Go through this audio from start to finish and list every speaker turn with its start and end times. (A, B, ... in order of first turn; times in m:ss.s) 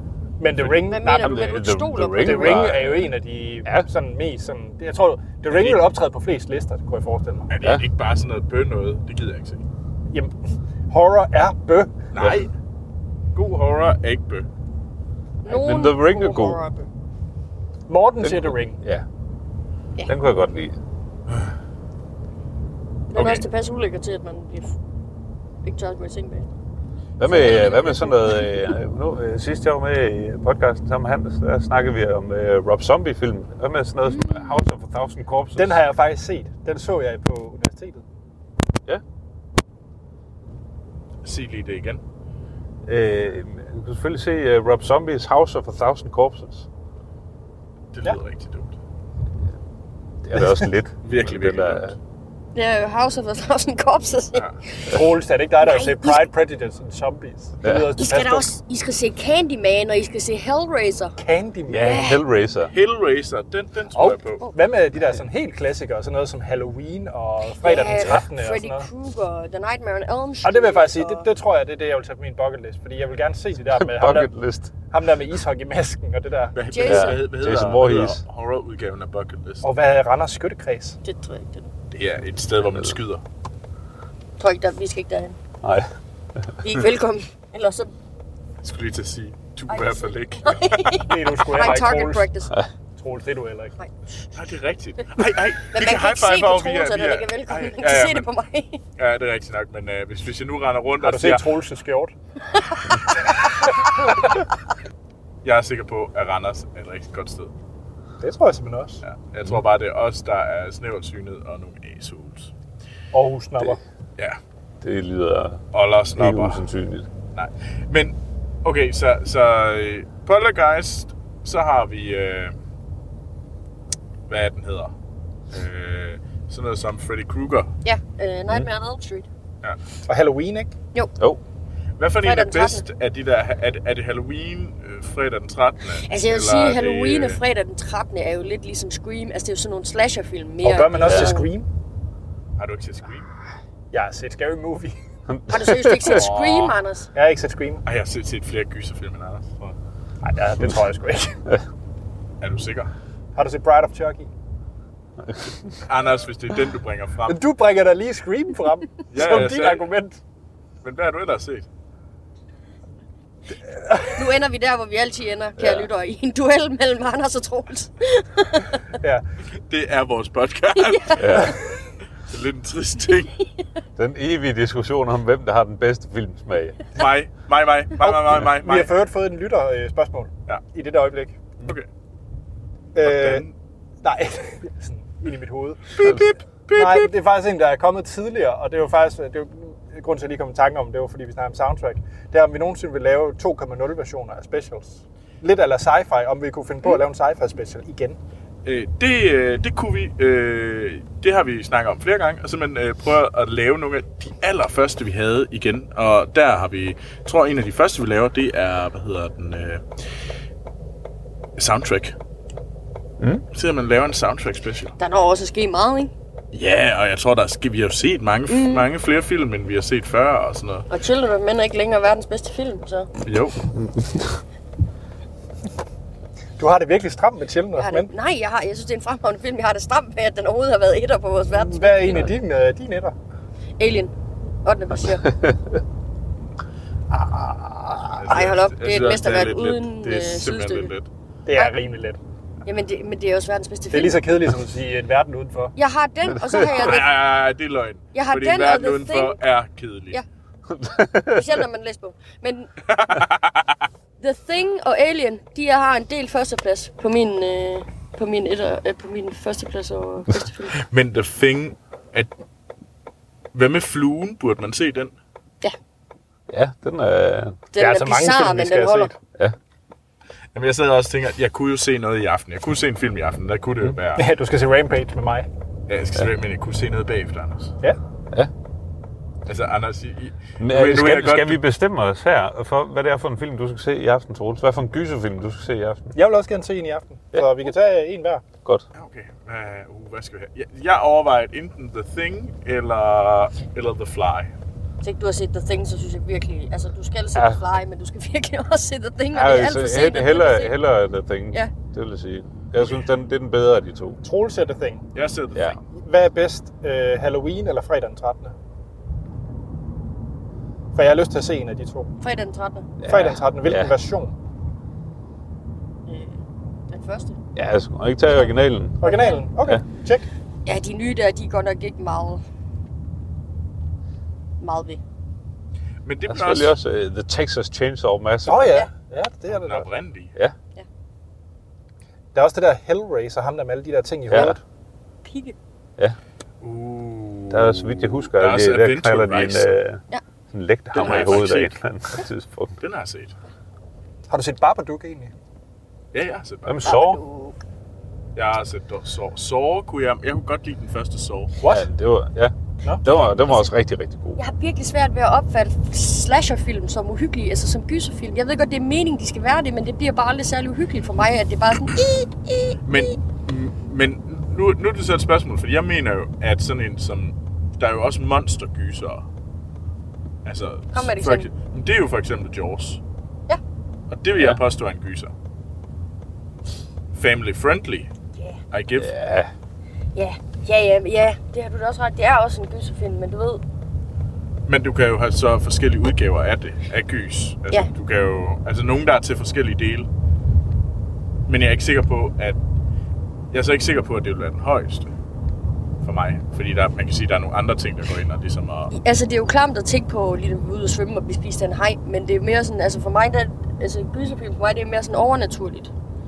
0:00.4-0:01.5 A
0:00.9-0:02.9 B
0:01.2-0:03.1 C
0:02.2-0:07.5 A
0:05.5-0:05.9 D
0:07.5-0:09.6 D
0:10.9-0:12.0 A
0:12.1-0:12.5 D
0:13.3-0:14.4 D
0:15.4-0:16.9 B
0:15.4-0:16.6 C
0:17.9-0:18.8 A
0:18.2-0:19.0 C
0:20.1-0:20.8 C
0:23.1-0:24.8 B
0:23.2-0:23.4 D
0:25.6-0:26.5 B
0:27.2-0:35.8 C
0:27.2-0:28.6 B
0:34.2-0:34.4 B
0:35.6-0:38.0 A
0:41.2-0:42.0 D
0:42.8-0:46.7 C
0:47.9-0:48.8 D
0:50.2-0:52.0 C
0:50.4-0:50.7 A
0:51.0-0:51.9 D
0:52.5-0:55.0 B
0:54.9-0:58.5 A
0:55.6-0:56.3 B
0:57.6-0:57.9 C
0:58.0-1:01.2 B
1:01.2-1:02.1 A
1:01.7-1:02.7 C
1:01.8-1:02.2 B
1:02.7-1:04.4 D
1:03.9-1:08.9 A
1:07.6-1:11.2 B
1:10.4-1:14.3 A
1:13.6-1:14.7 C
1:14.9-1:16.6 A
1:16.5-1:19.7 D
1:16.7-1:17.2 B
1:16.8-1:18.2 C
1:19.6-1:21.0 A
1:21.0-1:21.7 B
1:21.9-1:23.2 D
1:24.4-1:25.4 B
1:25.6-1:25.9 C
1:26.6-1:27.9 B
1:28.6-1:31.1 D
1:29.7-1:32.6 B
1:31.0-1:32.3 A
1:33.0-1:33.7 A
1:34.3-1:38.3 D
1:35.7-1:38.8 B
1:39.0-1:41.5 D
1:41.0-1:42.1 A
1:42.5-1:43.7 B
1:45.4-1:47.5 D
1:48.2-1:49.0 A
1:49.0-1:52.5 D
1:53.1-1:53.8 A
1:54.8-1:55.6 C
1:55.7-1:56.6 D
1:56.2-1:57.1 C
1:57.3-2:02.5 D
2:04.3-2:04.9 D
2:05.5-2:07.7 D
2:07.8-2:09.3 B
2:10.0-2:10.7 A
2:12.0-2:17.4 D
2:12.2-2:12.8 B
2:16.0-2:21.5 B
2:20.6-2:21.7 A
2:21.0-2:21.4 C
2:22.6-2:23.3 D
2:23.9-2:25.0 A
2:25.3-2:26.3 C
2:25.5-2:27.1 B
2:26.0-2:26.7 D
2:27.1-2:27.8 A
2:27.8-2:29.8 D
2:30.2-2:31.4 A
2:32.4-2:32.9 D
2:33.3-2:34.3 A
2:35.2-2:35.7 C
2:35.9-2:37.4 D
2:37.3-2:40.2 A
2:39.1-2:39.9 D
2:40.8-2:41.6 D
2:43.7-2:44.2 A
2:44.1-2:48.8 B
2:45.6-2:45.9 C
2:49.7-2:51.6 D
2:50.7-2:51.6 B
2:51.2-2:51.6 C
2:52.2-2:53.3 D
2:54.0-2:56.8 C
2:56.9-2:58.9 D
2:58.0-3:01.4 A
3:02.9-3:03.5 A
3:03.0-3:03.5 D
3:04.0-3:06.2 A
3:05.9-3:07.1 D
3:06.7-3:18.2 A
3:18.6-3:29.8 D
3:31.6-3:32.1 D
3:33.5-3:34.9 D
3:35.0-3:36.1 B
3:36.5-3:40.9 D
3:38.5-3:38.9 B
3:40.9-3:43.1 B
3:43.2-3:43.6 D
3:43.7-3:44.4 C
3:46.6-3:48.1 A
3:47.7-3:52.3 B
3:51.5-3:53.1 A
3:53.8-3:54.1 B
3:54.6-3:55.3 B
3:55.1-3:55.8 C
3:57.1-3:58.3 C
3:58.1-4:01.1 D
3:58.3-4:00.9 B
4:01.4-4:02.2 A
4:02.6-4:04.2 B
4:03.9-4:05.7 A
4:05.8-4:07.1 B
4:06.3-4:06.9 C
4:06.6-4:10.2 D
4:08.1-4:09.4 B
4:10.7-4:11.6 C
4:11.3-4:12.7 B
4:12.9-4:13.7 D
4:14.2-4:20.8 B
4:20.8-4:22.3 D
4:23.5-4:25.1 D
4:26.5-4:27.6 C
4:27.7-4:29.1 B
4:27.8-4:29.2 A
4:30.5-4:34.3 D
4:34.2-4:35.5 A
4:35.9-4:37.7 D
4:39.4-4:41.6 D
4:40.6-4:46.1 C
4:46.1-4:48.4 A
4:48.9-4:54.5 D
4:55.0-5:00.7 B
4:57.3-4:57.6 C
4:59.3-5:04.2 C
5:04.2-5:05.1 A
5:05.1-5:05.8 D
5:05.9-5:08.5 A
5:10.9-5:12.1 A
5:12.2-5:12.9 B
5:13.0-5:14.0 C
5:13.0-5:14.3 A
5:16.1-5:17.4 B
5:17.5-5:19.0 C
5:19.0-5:20.2 A
5:19.0-5:19.4 B
5:20.6-5:22.4 B
5:24.6-5:25.0 B
5:26.0-5:26.8 D
5:26.3-5:28.8 C
5:28.4-5:29.9 A
5:29.5-5:30.3 D
5:32.3-5:34.6 A
5:34.3-5:34.6 C
5:35.2-5:35.6 B
5:36.6-5:39.7 D
5:37.5-5:42.8 C
5:40.9-5:41.7 D
5:41.0-5:41.4 B
5:42.8-5:43.3 D
5:44.3-5:45.3 A
5:46.1-5:46.8 D
5:46.6-5:47.2 C
5:46.8-5:47.6 B
5:48.4-5:51.5 D
5:51.6-5:51.8 A
5:51.6-5:54.4 C
5:53.0-5:53.7 B
5:54.4-6:03.1 B
6:02.8-6:09.2 D
6:10.4-6:13.0 D
6:10.9-6:11.5 B
6:14.1-6:15.3 D
6:14.3-6:14.6 C
6:17.1-6:18.1 D
6:18.7-6:19.1 D
6:19.0-6:19.5 C
6:20.1-6:23.6 B
6:24.7-6:30.1 D
6:31.5-6:32.6 D
6:33.5-6:35.1 D
6:36.0-6:38.9 D
6:38.9-6:45.9 B